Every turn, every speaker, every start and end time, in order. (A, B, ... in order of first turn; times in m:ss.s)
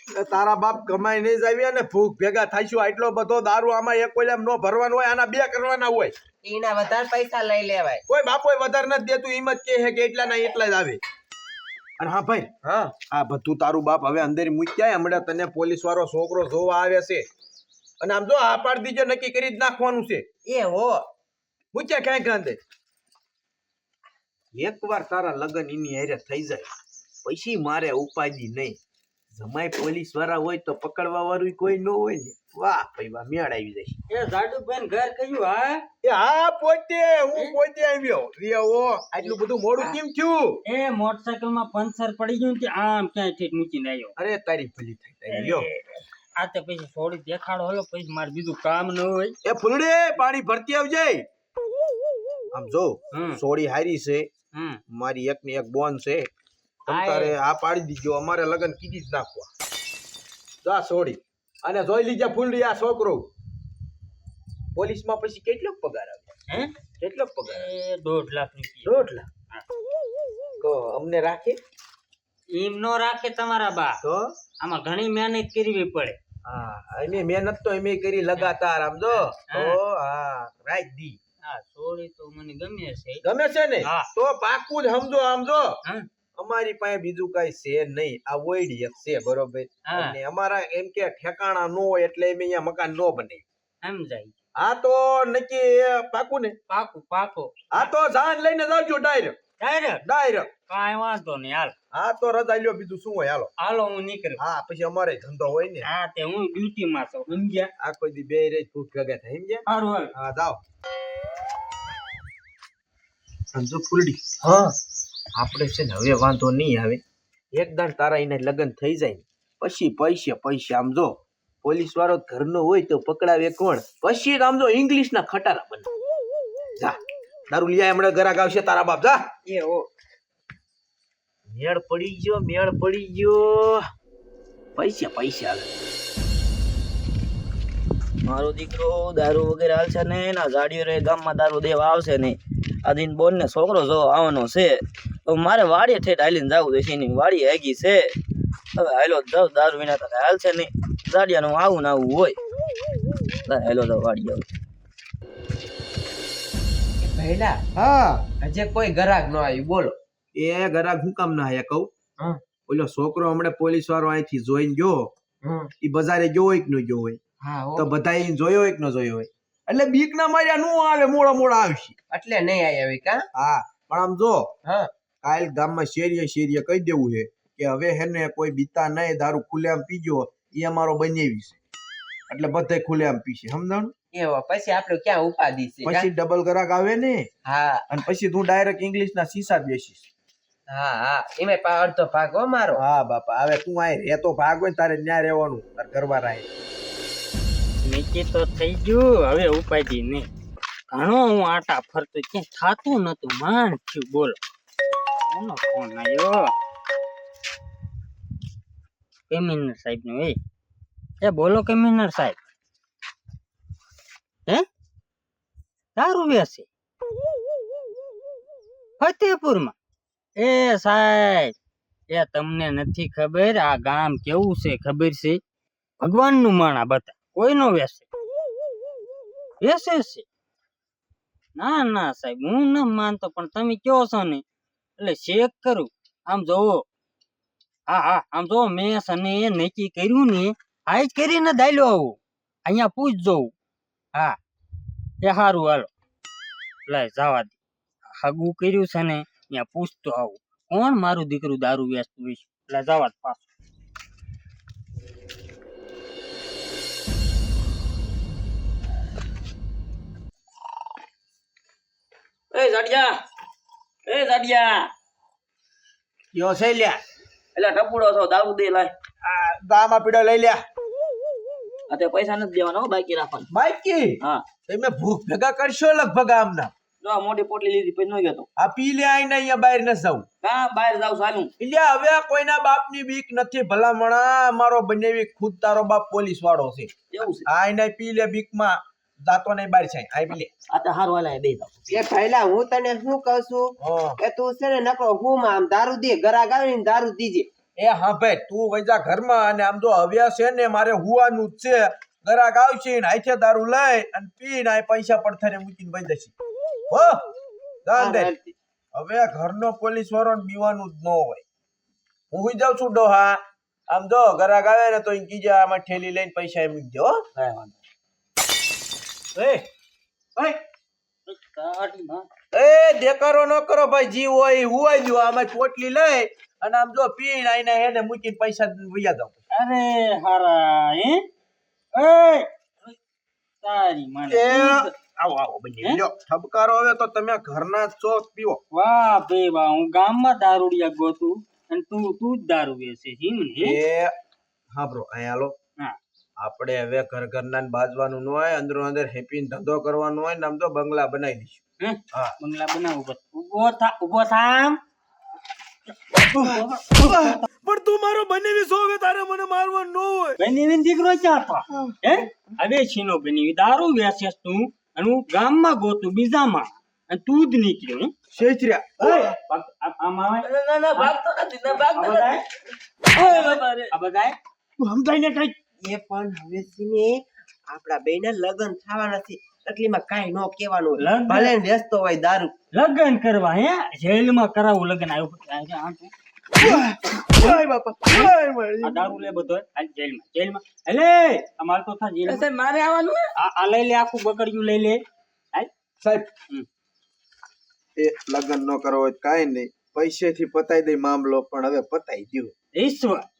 0:00.1-0:06.2 A
0:06.4-0:08.0 B
0:08.1-0:11.0 A
0:12.0-0:12.5 A
0:12.6-0:13.0 B
0:13.1-0:17.3 A
0:18.0-0:20.3 A
0:20.4-0:21.0 B
0:21.7-0:22.6 A
0:24.5-0:26.7 A
0:27.2-0:28.8 A
0:29.3-0:34.0 A
0:34.1-0:35.8 C
0:36.0-0:40.6 A
0:39.3-0:40.0 C
0:40.7-0:44.2 C
0:44.2-0:45.7 A
0:45.3-0:49.4 C
0:49.4-0:51.3 A
0:52.5-0:54.3 A
0:53.1-0:53.4 C
0:54.5-0:54.8 C
0:54.9-0:56.3 A
0:56.8-0:59.5 A
0:56.9-0:57.4 C
1:00.6-1:03.3 A
1:04.8-1:06.3 A
1:06.5-1:06.8 C
1:07.0-1:07.7 A
1:07.5-1:09.0 C
1:08.8-1:09.3 A
1:10.6-1:11.6 A
1:12.5-1:14.0 C
1:14.0-1:14.3 A
1:14.6-1:16.2 C
1:16.4-1:21.2 A
1:19.1-1:19.8 C
1:21.4-1:23.2 C
1:23.2-1:25.8 A
1:23.8-1:24.1 C
1:26.4-1:33.4 A
1:29.9-1:30.2 C
1:33.8-1:34.4 C
1:34.6-1:36.6 A
1:36.7-1:37.9 C
1:37.7-1:39.4 A
1:39.6-1:40.0 C
1:40.0-1:40.5 A
1:40.7-1:41.7 C
1:41.9-1:43.5 A
1:43.6-1:44.4 C
1:44.4-1:45.9 A
1:45.8-1:47.7 C
1:47.8-1:50.6 A
1:49.7-1:50.1 C
1:53.5-1:54.7 A
1:55.3-1:57.0 A
1:57.5-2:05.9 A
2:07.5-2:09.2 A
2:09.5-2:09.9 B
2:11.5-2:13.8 A
2:14.8-2:15.7 A
2:18.2-2:28.1 D
2:28.8-2:32.4 D
2:33.5-2:34.5 D
2:37.0-2:37.6 B
2:37.8-2:38.2 A
2:38.4-2:40.0 B
2:40.4-2:41.9 A
2:42.7-2:45.1 A
2:45.4-2:45.7 B
2:45.8-2:47.2 A
2:47.4-2:47.9 B
2:47.8-2:52.0 A
2:52.1-2:53.3 B
2:53.3-2:54.5 A
2:55.2-3:01.6 A
3:02.3-3:03.9 A
3:04.1-3:06.1 B
3:05.8-3:07.3 A
3:07.5-3:07.8 B
3:07.9-3:10.1 A
3:10.7-3:12.8 B
3:12.8-3:16.5 A
3:17.8-3:20.3 C
3:20.9-3:24.4 C
3:25.3-3:26.5 C
3:29.3-3:30.4 C
3:31.2-3:32.4 C
3:36.0-3:36.7 C
3:39.0-3:39.8 C
3:40.4-3:41.5 C
3:42.1-3:45.4 C
3:46.0-3:48.1 C
3:49.6-3:50.2 C
3:51.6-3:54.4 C
3:55.0-3:56.8 C
3:57.9-4:03.5 C
4:05.2-4:05.9 C
4:06.9-4:07.6 C
4:08.2-4:13.5 C
4:22.5-4:23.2 D
4:24.1-4:24.9 D
4:26.3-4:27.0 A
4:27.6-4:28.9 D
4:29.2-4:30.6 A
4:31.9-4:33.5 D
4:33.5-4:36.7 A
4:37.0-4:38.5 D
4:38.6-4:40.3 A
4:40.4-4:41.5 D
4:41.6-4:46.9 A
4:47.1-4:47.5 D
4:47.5-4:50.5 A
4:50.7-4:52.1 D
4:51.9-4:57.5 B
4:53.8-4:54.2 A
4:57.8-5:06.3 A
5:06.9-5:07.2 A
5:07.8-5:08.3 A
5:08.0-5:08.6 B
5:08.9-5:11.4 A
5:12.3-5:17.2 A
5:17.4-5:17.7 D
5:19.4-5:19.6 C
5:21.3-5:22.3 C
5:22.5-5:29.4 A
5:29.5-5:31.3 C
5:32.0-5:33.0 C
5:33.6-5:34.9 C
5:34.3-5:38.6 A
5:38.7-5:43.8 C
5:43.6-5:44.1 A
5:44.7-5:45.6 A
5:46.4-5:51.6 A
5:51.8-5:54.8 C
5:56.1-5:57.4 C
5:56.2-6:00.4 A
6:00.4-6:08.1 C
6:01.7-6:02.0 A
6:08.3-6:09.4 A
6:09.0-6:11.1 C
6:10.4-6:12.4 D
6:11.8-6:12.4 C
6:13.1-6:13.9 D
6:13.2-6:14.4 C
6:14.8-6:15.6 A
6:15.8-6:22.5 B
6:21.0-6:21.6 C
6:22.7-6:26.8 C
6:26.6-6:29.2 A
6:27.4-6:32.5 C
6:32.2-6:33.3 D
6:33.4-6:35.0 C
6:36.0-6:36.3 A
6:38.0-6:42.5 A
6:42.8-6:43.3 C